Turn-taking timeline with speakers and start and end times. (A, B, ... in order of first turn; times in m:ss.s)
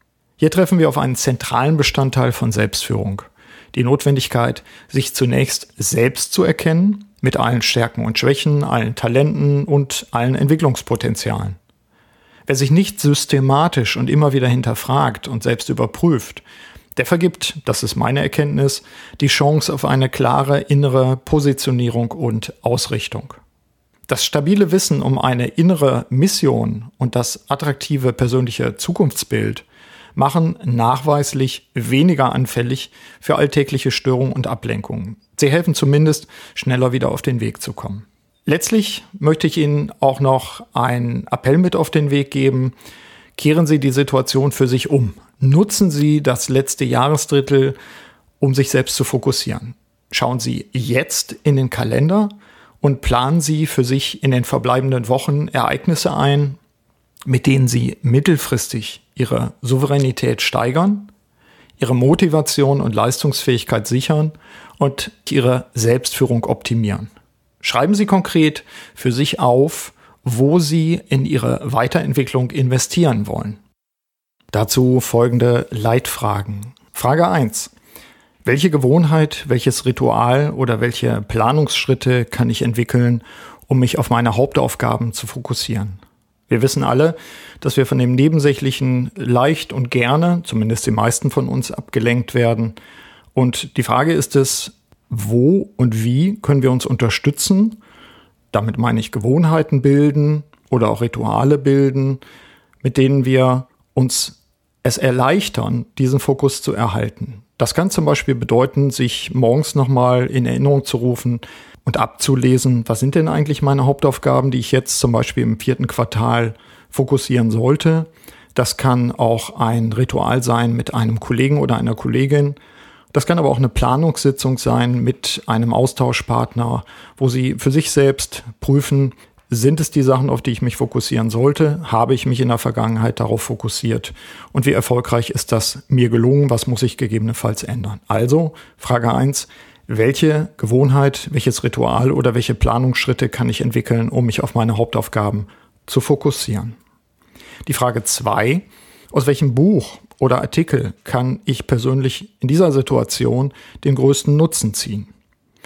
0:00.4-0:11.6 A
0:12.5-0:16.4 A
0:17.0-0:23.4 A
0:24.1-0:29.6 A
0:30.2-0:42.8 A
0:43.4-0:47.8 A
0:48.4-0:56.6 A
0:57.3-1:01.1 A
1:01.8-1:07.1 A
1:07.6-1:13.6 A
1:14.5-1:17.7 A
1:18.4-1:32.8 A
1:33.4-1:37.8 A
1:38.5-1:42.2 A
1:42.8-2:02.6 A
2:03.1-2:26.8 A
2:27.7-2:35.1 A